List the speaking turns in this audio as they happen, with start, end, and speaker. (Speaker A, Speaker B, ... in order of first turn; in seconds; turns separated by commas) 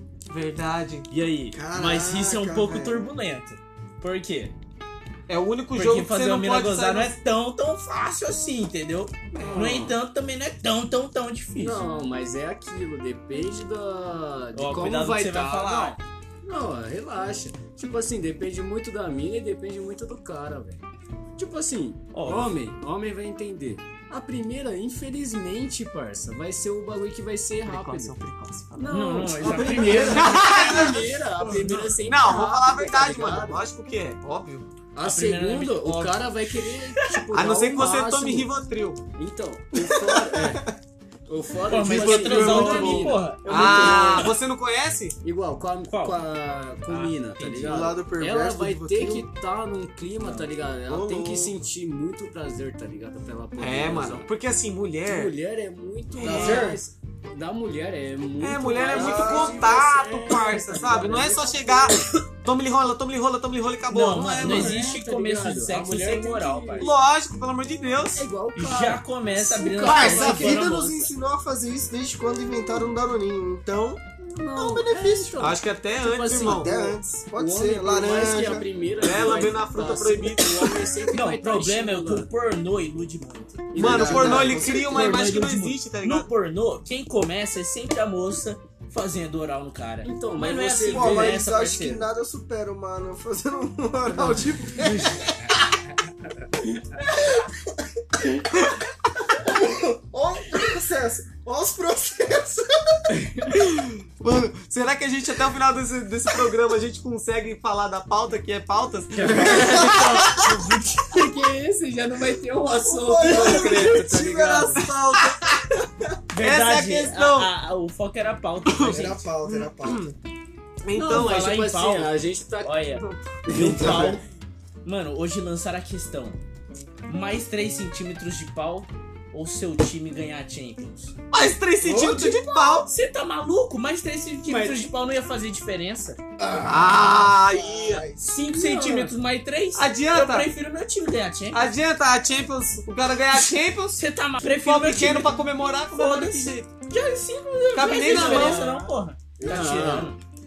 Speaker A: 0.3-1.1, Speaker B: 1.1-4.5, Speaker C: 1.5-3.1, Speaker A: 5.3-7.1, Speaker B: 5.7-11.8, Speaker A: 9.3-9.8, Speaker D: 9.4-9.9, Speaker D: 11.6-20.8, Speaker B: 14.5-16.0, Speaker D: 21.4-28.1, Speaker B: 22.1-22.5, Speaker A: 27.7-28.9, Speaker D: 28.8-33.6, Speaker B: 28.9-32.0, Speaker A: 29.9-31.1, Speaker A: 32.0-34.6, Speaker D: 34.9-38.5, Speaker B: 35.0-36.3, Speaker A: 37.3-39.0, Speaker D: 39.1-40.7, Speaker C: 40.1-40.7, Speaker D: 41.3-44.3, Speaker B: 41.7-44.2, Speaker C: 41.8-44.0, Speaker A: 43.4-45.2, Speaker D: 45.2-54.3, Speaker B: 45.9-46.2, Speaker B: 46.9-47.9, Speaker C: 47.6-49.2, Speaker C: 50.9-51.6, Speaker A: 53.6-55.3, Speaker D: 55.0-62.1, Speaker A: 56.2-56.7, Speaker C: 56.2-56.8, Speaker A: 58.4-64.8, Speaker C: 58.9-59.8, Speaker B: 63.9-67.0, Speaker D: 64.3-66.9, Speaker A: 66.8-68.2, Speaker D: 68.1-70.6, Speaker B: 68.5-71.1, Speaker C: 69.8-74.0, Speaker A: 69.8-70.6, Speaker D: 74.2-75.6, Speaker C: 74.5-75.5, Speaker A: 75.4-77.0, Speaker B: 76.0-76.7, Speaker C: 76.3-78.7, Speaker D: 77.3-82.3, Speaker A: 79.0-80.9, Speaker B: 81.1-92.0, Speaker D: 83.7-84.8, Speaker C: 83.7-85.0, Speaker A: 83.7-86.3, Speaker D: 90.0-91.4, Speaker C: 90.8-95.3, Speaker C: 97.0-97.6, Speaker C: 99.4-103.0, Speaker D: 103.1-103.5, Speaker A: 103.5-110.7, Speaker D: 109.2-114.8, Speaker C: 109.5-110.4, Speaker C: 112.7-115.8, Speaker A: 114.7-115.6, Speaker B: 116.3-119.2, Speaker A: 116.4-117.5, Speaker A: 118.7-120.1, Speaker C: 118.8-120.0, Speaker A: 120.8-121.5, Speaker D: 120.9-122.8, Speaker B: 121.0-124.2, Speaker D: 123.5-124.2, Speaker C: 123.5-124.2, Speaker B: 124.8-126.4, Speaker B: 127.1-131.1, Speaker A: 131.3-132.9, Speaker D: 131.8-132.4, Speaker C: 131.9-132.2, Speaker B: 132.8-136.2, Speaker D: 134.4-134.8, Speaker C: 136.4-138.4, Speaker D: 136.5-136.9, Speaker A: 136.7-138.0, Speaker B: 138.2-141.7, Speaker D: 138.4-139.1, Speaker A: 139.7-140.5, Speaker A: 141.5-146.6, Speaker B: 143.3-150.2, Speaker A: 147.7-148.9, Speaker D: 148.1-148.7, Speaker C: 149.4-150.1, Speaker D: 149.4-150.1